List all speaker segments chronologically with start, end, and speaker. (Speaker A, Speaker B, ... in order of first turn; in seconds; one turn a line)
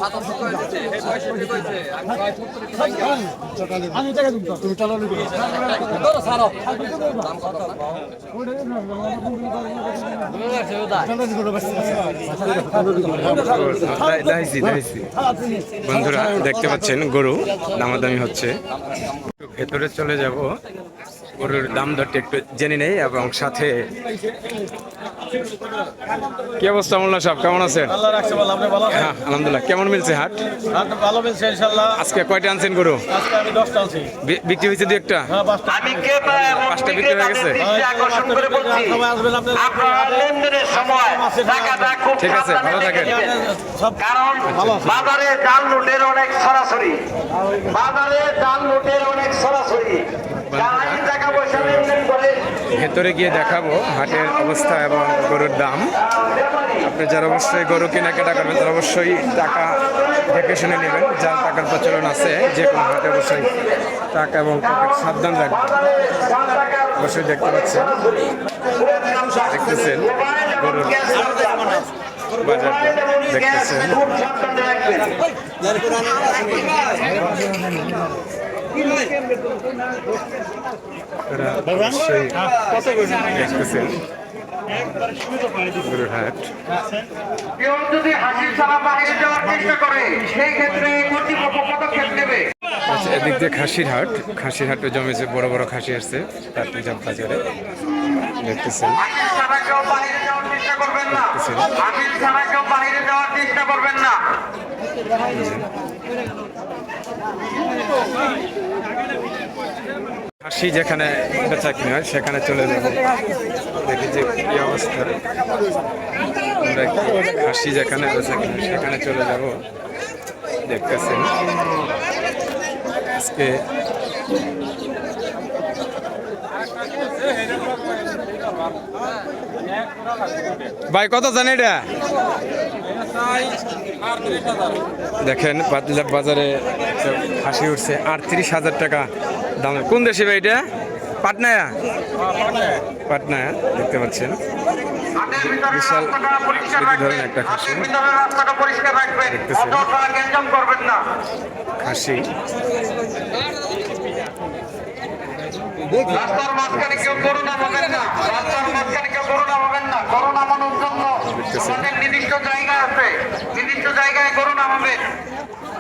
Speaker A: 13.1-15.1
Speaker A: 15.8-18.6
Speaker A: 19.2-20.5
Speaker A: 21.4-23.9
Speaker A: 26.5-28.1
Speaker B: 28.1-28.8
Speaker A: 28.8-30.8
Speaker B: 30.9-31.8
Speaker A: 31.8-33.2
Speaker B: 33.4-34.1
Speaker A: 34.1-35.5
Speaker C: 35.6-50.2
Speaker A: 36.1-37.8
Speaker A: 42.1-43.3
Speaker A: 44.4-45.1
Speaker A: 50.3-52.0
Speaker C: 50.9-52.5
Speaker A: 52.7-56.0
Speaker C: 56.2-56.7
Speaker A: 56.8-66.1
Speaker C: 66.1-66.9
Speaker A: 66.7-68.2
Speaker C: 68.1-69.5
Speaker A: 69.4-71.4
Speaker C: 70.2-70.6
Speaker C: 71.1-71.8
Speaker A: 72.4-74.2
Speaker C: 74.0-75.2
Speaker A: 81.3-84.0
Speaker A: 85.7-86.5
Speaker C: 87.5-92.5
Speaker A: 92.8-97.4
Speaker A: 98.4-99.1
Speaker C: 99.0-101.1
Speaker A: 101.1-101.8
Speaker C: 101.8-104.3
Speaker A: 105.3-105.7
Speaker A: 110.4-113.0
Speaker A: 113.8-115.2
Speaker A: 116.6-119.6
Speaker A: 120.7-121.4
Speaker A: 123.1-123.6
Speaker A: 130.9-131.9
Speaker A: 135.2-140.6
Speaker A: 141.2-141.8
Speaker A: 143.1-144.4
Speaker C: 145.2-146.9
Speaker A: 145.2-148.0
Speaker C: 147.8-151.1
Speaker A: 149.2-149.9
Speaker A: 151.8-152.3
Speaker C: 156.0-161.2
Speaker A: 156.6-157.5
Speaker A: 161.1-162.0
Speaker C: 161.8-165.1